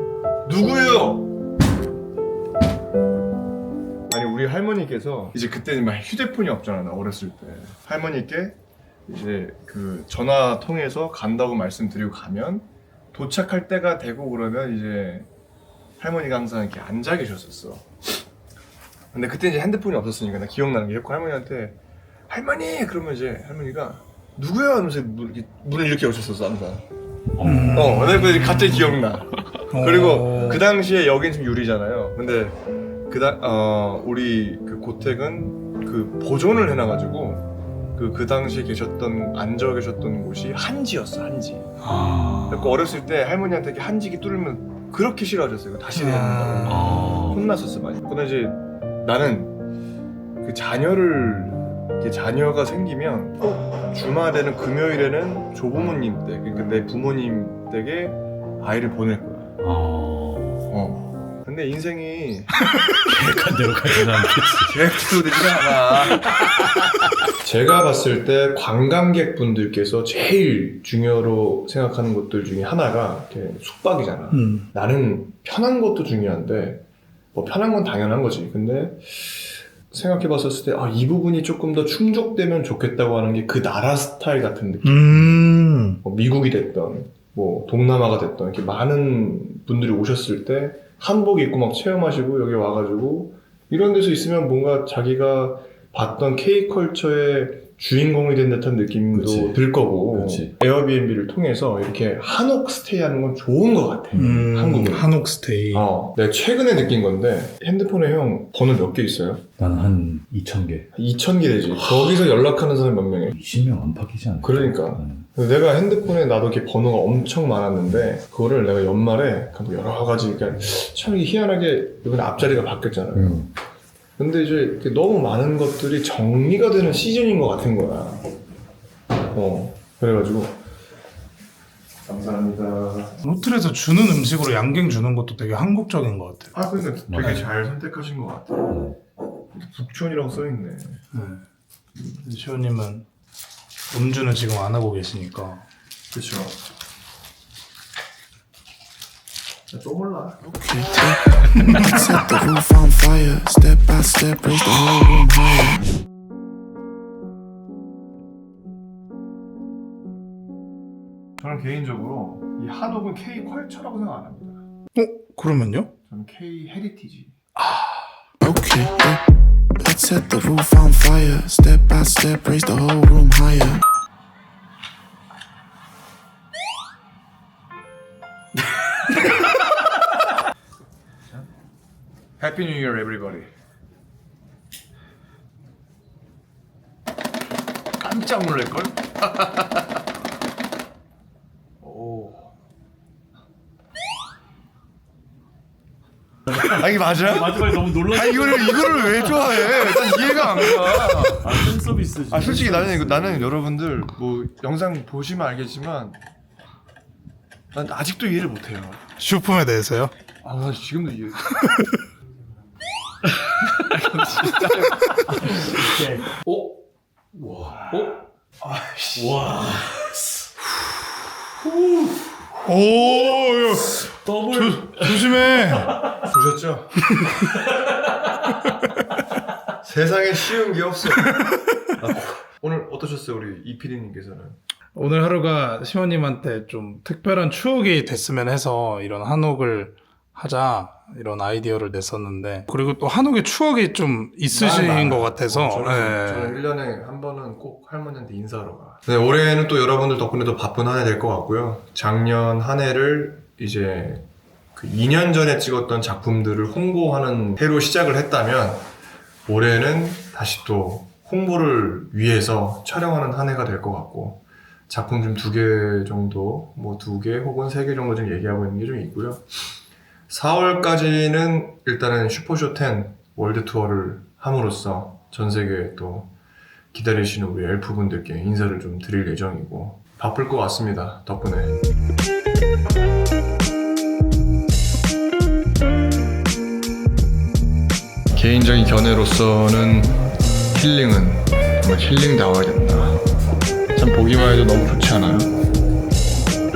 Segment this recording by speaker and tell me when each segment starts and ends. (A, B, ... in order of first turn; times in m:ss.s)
0:00.4-0:01.3 A
0:04.1-0:08.6 A
0:09.1-0:15.3 A
0:16.0-0:17.9 A
0:19.1-0:21.8 A
0:22.3-0:26.8 A
0:27.4-0:27.7 B
0:27.4-0:28.9 C
0:27.7-0:32.6 A
0:29.7-0:30.6 C
0:33.1-0:41.7 A
0:41.8-0:42.7 B
0:42.5-0:49.6 A
0:45.9-0:47.1 C
0:46.7-0:47.4 B
0:50.4-0:59.5 A
0:59.6-1:00.7 B
1:00.7-1:02.5 A
1:03.0-1:04.8 B
1:04.6-1:06.4 A
1:07.4-1:25.4 A
1:14.3-1:14.7 C
1:24.8-1:26.0 C
1:26.0-1:45.1 A
1:39.1-1:39.6 B
1:40.1-1:40.5 B
1:44.1-1:45.8 C
1:45.7-1:49.4 A
1:49.6-1:50.9 B
1:50.9-1:53.3 A
1:53.3-1:55.2 B
1:54.4-2:03.4 A
2:03.1-2:03.5 B
2:04.2-2:08.2 A
2:09.3-2:10.6 A
2:12.0-2:13.2 A
2:13.2-2:16.5 C
2:16.5-2:18.8 A
2:17.1-2:17.5 B
2:18.7-2:19.0 B
2:19.5-2:21.0 A
2:21.1-2:21.4 C
2:22.1-2:23.0 C
2:23.9-2:25.6 C
2:26.1-2:26.6 A
2:29.7-2:30.9 A
2:30.7-2:35.8 D
2:31.8-2:32.2 C
2:41.4-2:44.6 A
2:44.9-2:45.9 C
2:46.1-2:47.4 A
2:48.4-2:49.2 D
2:49.8-2:53.8 D
3:02.4-3:03.5 A
3:08.0-3:09.8 A
3:11.9-3:12.2 A
3:16.5-3:19.3 B
3:16.5-3:21.7 A
3:21.4-3:23.4 B
3:22.3-3:26.2 A
3:27.7-3:29.0 A
3:29.2-3:30.1 C
3:30.4-3:31.6 A
3:33.6-3:35.6 A
3:35.6-3:36.7 B
3:37.3-3:38.2 B
3:38.6-3:39.6 A
3:39.2-3:40.1 B
3:42.6-3:46.0 C
3:44.2-3:46.2 B
3:46.1-3:47.0 A
3:49.8-3:51.4 A
3:51.4-3:51.7 C
3:52.0-3:54.6 A
3:54.9-4:06.6 C
4:04.5-4:18.8 A
4:19.4-4:29.4 A
4:30.3-4:36.3 A
4:36.9-4:41.8 A
4:48.3-4:50.2 A
4:50.7-4:53.2 A
4:53.9-4:55.5 A